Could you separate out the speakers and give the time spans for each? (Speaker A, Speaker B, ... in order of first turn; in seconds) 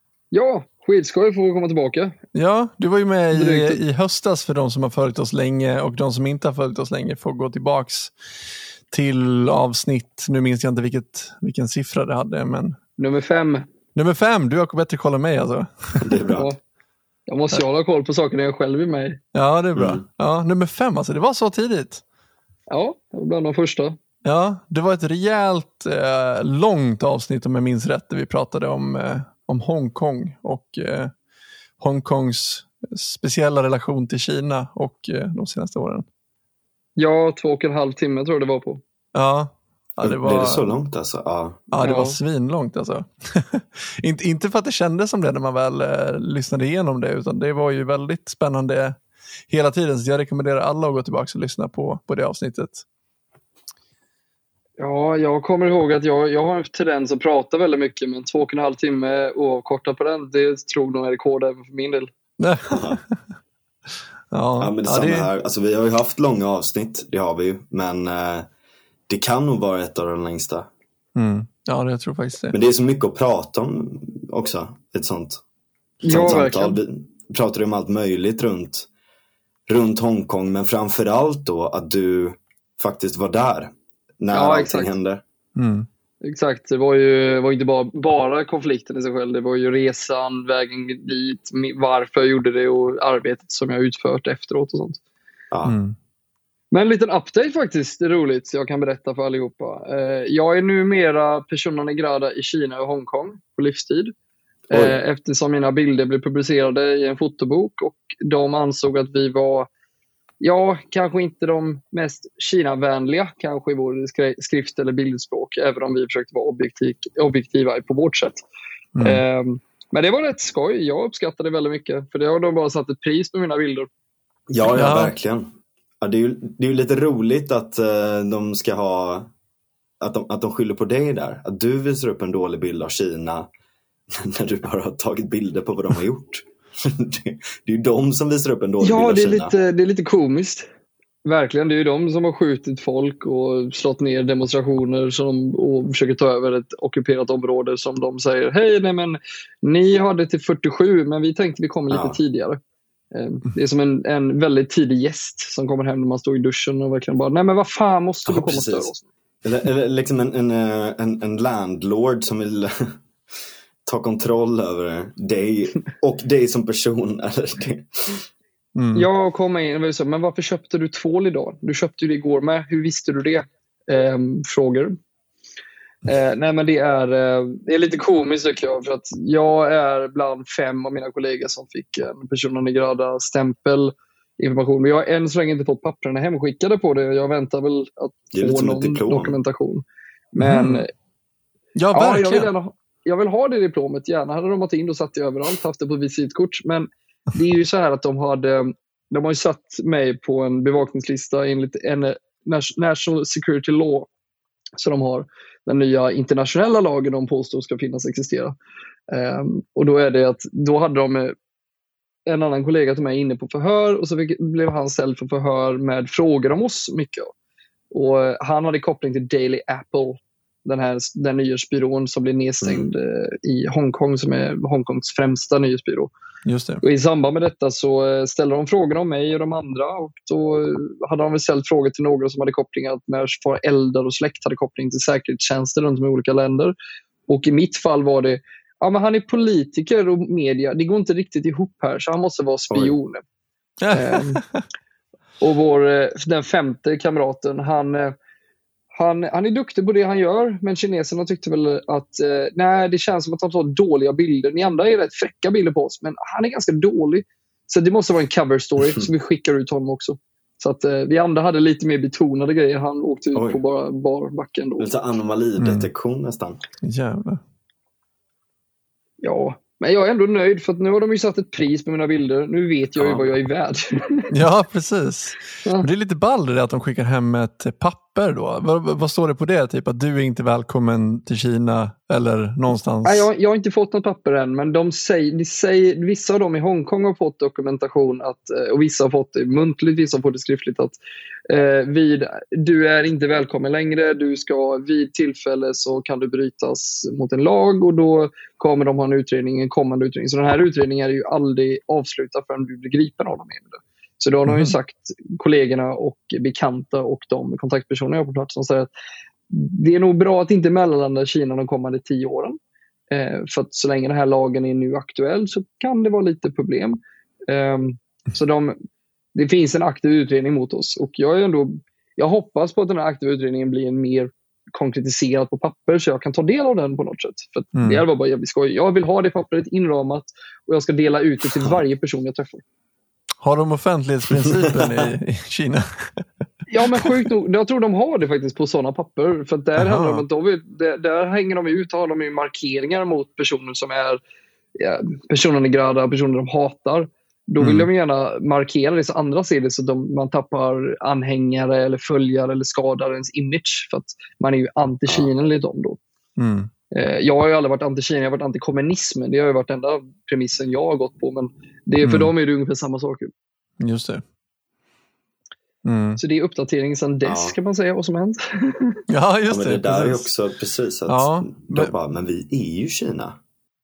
Speaker A: 0.3-2.2, 3.3-3.8, 13.0-13.7, 17.3-19.2, 22.7-24.0, 37.0-38.8, 41.8-42.2, 54.8-62.1, 76.0-76.8, 84.3-84.9, 86.2-95.0, 96.7-104.1, 104.7-109.7, 110.4-118.4, 119.0-123.9, 138.8-140.7, 141.2-152.6, 153.1-159.1, 168.9-174.9, 176.0-190.9, 191.9-204.1, 204.8-208.5, 209.1-211.3, 212.3-217.3, 217.9-226.1, 226.8-236.8, 237.3-243.2, 243.9-244.4, 245.4-248.2, 248.9-264.9, 269.2-274.3, 275.6-275.9, 283.0-291.0, 291.5-308.9, 309.5-312.6, 313.1-318.8, 319.4-332.6, 336.7-344.2, 344.8-356.0, 356.9-363.3, 366.2-369.0
Speaker B: 2.4-8.1, 8.9-12.8, 13.9-16.2, 19.3-22.0, 24.2-31.1, 31.8-36.0, 39.1-40.7, 41.7-49.0, 49.5-52.8, 62.4-63.1, 64.3-65.3, 71.1-72.6, 85.6-85.9, 95.6-96.0, 119.0-119.2, 124.7-125.1, 168.8-169.1, 190.4-190.8, 191.8-192.5, 226.4-226.8, 243.8-244.6, 265.6-265.9, 266.8-267.4, 274.3-283.3, 304.5-304.7, 327.8-328.0, 333.4-336.2, 339.8-340.2, 347.6-347.9, 356.4-356.7, 362.0-362.3, 363.8-364.2, 365.8-366.2, 369.1-370.3, 371.1-371.9
Speaker C: 16.0-16.5, 19.8-20.0, 40.0-41.8, 62.7-63.0, 64.6-68.5, 69.1-70.7, 72.5-75.4, 76.0-78.9, 79.7-85.2, 95.5-95.8, 104.7-105.0, 124.5-129.3, 130.0-133.5, 134.1-139.5, 151.9-152.2, 158.3-158.9, 159.4-163.0, 163.8-168.2, 188.3-189.4, 222.6-222.9, 242.7-243.0, 263.4-263.6, 264.8-266.6, 273.0-273.3, 334.6-335.0, 367.2-367.6, 369.5-373.4